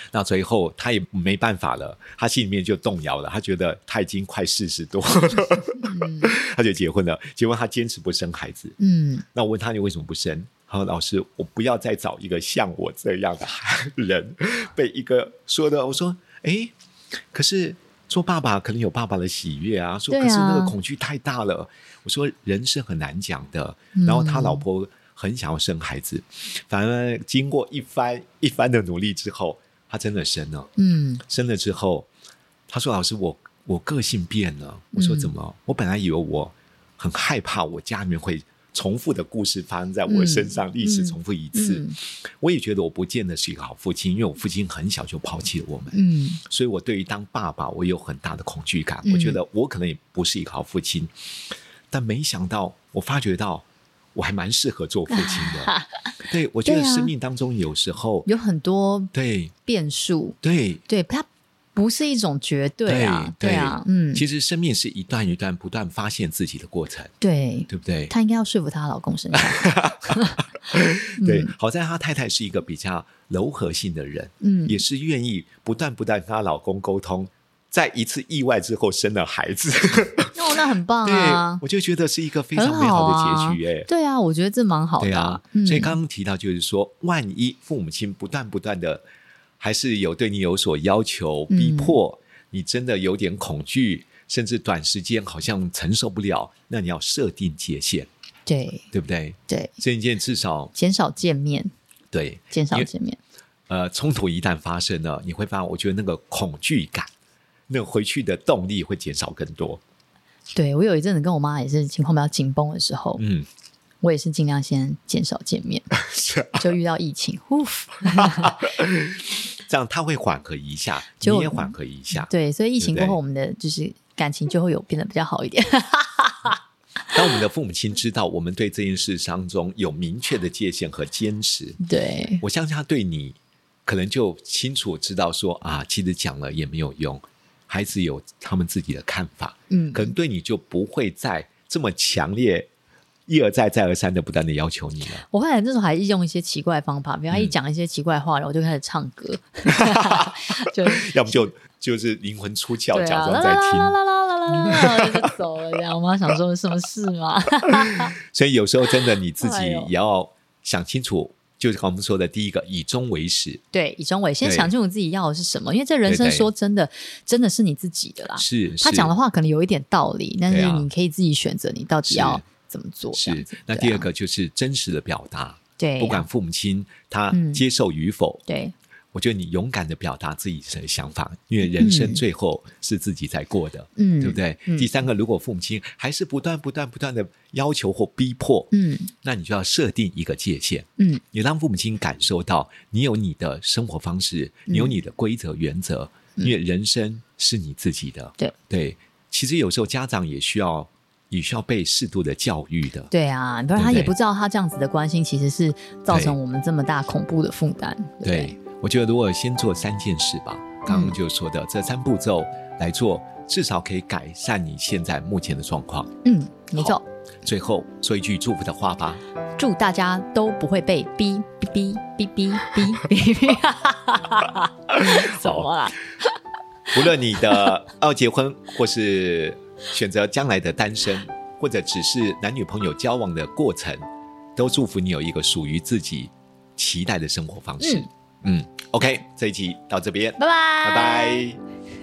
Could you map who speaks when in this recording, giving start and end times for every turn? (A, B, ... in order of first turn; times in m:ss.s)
0:00.1-0:08.8 A
0:05.8-0:06.3 B
0:08.8-0:09.2 B
0:09.3-0:16.7 A
0:17.3-0:30.7 A
0:20.1-0:20.7 B
0:23.9-0:24.6 B
0:30.8-0:31.2 B
0:31.2-0:32.1 A
0:32.7-0:58.3 A
0:34.9-0:35.3 B
0:40.1-0:42.0 B
0:45.9-0:46.4 B
0:49.0-0:49.4 B
0:55.1-0:57.1 B
0:58.2-0:59.1 B
0:59.1-0:59.5 A
0:59.6-1:00.4 B
1:00.4-1:00.8 A
1:00.9-1:04.2 B
1:02.9-1:07.1 A
1:07.2-1:10.4 B
1:07.7-1:08.1 A
1:09.3-1:20.4 A
1:11.2-1:11.5 B
1:14.4-1:14.8 B
1:20.3-1:21.6 B
1:21.0-1:23.9 A
1:22.5-1:26.0 B
1:25.0-1:29.0 A
1:29.6-1:38.1 A
1:31.5-1:32.0 B
1:38.5-1:38.8 B
1:38.9-1:40.7 A
1:40.7-1:41.7 B
1:42.1-1:42.9 A
1:42.5-1:43.2 B
1:43.7-1:47.1 A
1:47.7-1:49.8 A
1:50.5-1:53.2 B
1:53.2-1:53.5 A
1:54.0-1:55.9 B
1:56.0-1:56.6 A
1:56.5-1:58.7 B
1:58.1-2:03.2 A
2:01.2-2:06.6 B
2:07.1-2:11.8 A
2:11.8-2:12.4 B
2:12.4-2:22.7 A
2:19.7-2:20.1 B
2:23.3-2:25.2 A
2:25.3-2:31.4 B
2:29.7-2:34.0 A
2:32.9-2:38.1 B
2:34.5-2:35.2 A
2:38.2-2:43.6 A
2:39.4-2:39.9 B
2:43.7-2:54.1 B
2:44.4-2:44.7 A
2:46.0-2:46.5 A
2:48.4-2:49.1 A
2:50.5-2:50.9 A
2:52.0-2:52.4 A
2:53.1-2:58.4 A
2:55.8-2:56.2 B
2:57.3-2:57.6 B
2:58.5-2:58.7 B
2:59.1-3:08.7 A
3:01.8-3:02.2 B
3:04.0-3:04.9 B
3:08.7-3:09.1 B
3:09.2-3:23.1 A
3:14.7-3:15.0 B
3:23.1-3:28.6 B
3:23.8-3:24.1 A
3:26.1-3:26.4 A
3:28.2-3:36.1 A
3:30.9-3:31.2 B
3:36.2-3:37.0 B
3:36.8-3:39.2 A
3:39.6-3:46.4 B
3:45.0-3:45.7 A
3:46.9-3:54.0 A
3:54.6-4:01.6 A
3:57.8-3:58.1 B
4:00.4-4:01.4 B